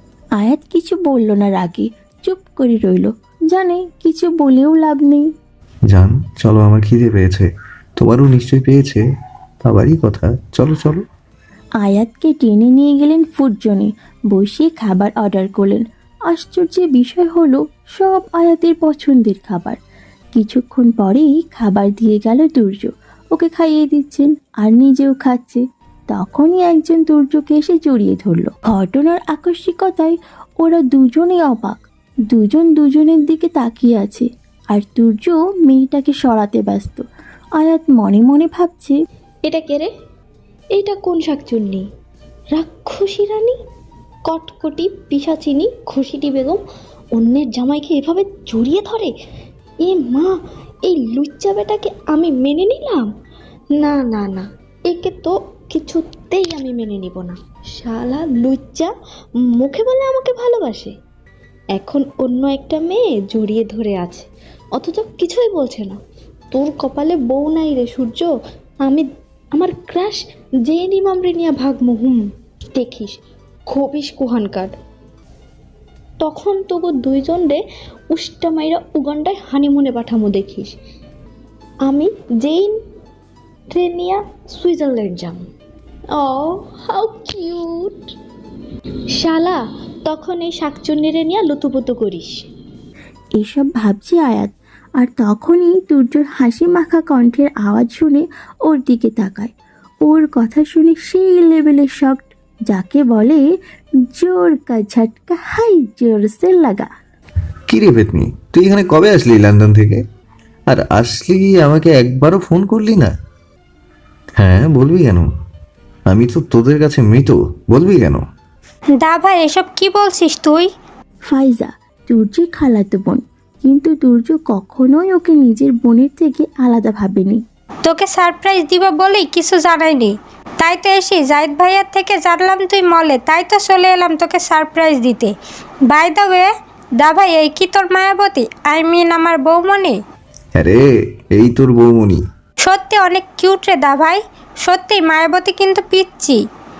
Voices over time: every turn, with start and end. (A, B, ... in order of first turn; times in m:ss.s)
0:00.4-0:05.3 A
0:05.9-0:09.0 B
0:09.6-0:11.0 B
0:11.8-0:19.8 A
0:20.3-0:37.0 A
0:37.6-0:39.0 A
0:39.5-0:39.9 C
0:40.8-0:41.9 C
0:42.5-0:43.6 C
0:44.3-0:46.6 C
0:47.2-0:49.1 C
0:49.8-0:50.3 C
0:50.8-0:53.1 C
0:53.8-0:58.9 C
0:59.6-1:00.9 C
1:01.7-1:06.0 C
1:06.5-1:08.3 C
1:08.8-1:12.2 C
1:12.8-1:13.2 C
1:13.7-1:14.7 C
1:16.2-1:17.6 C
1:18.1-1:20.7 C
1:21.8-1:22.8 C
1:23.7-1:25.4 C
1:26.1-1:28.1 C
1:29.2-1:32.4 C
1:33.4-1:39.5 A
1:40.0-1:43.4 A
1:44.1-1:46.9 A
1:47.7-1:50.0 B
1:50.7-1:53.1 B
1:54.4-1:55.3 B
1:56.1-1:58.2 B
1:59.0-2:00.7 D
2:01.3-2:07.4 A
2:07.8-2:15.3 D
2:15.9-2:20.0 D
2:20.6-2:22.2 B
2:22.6-2:26.4 D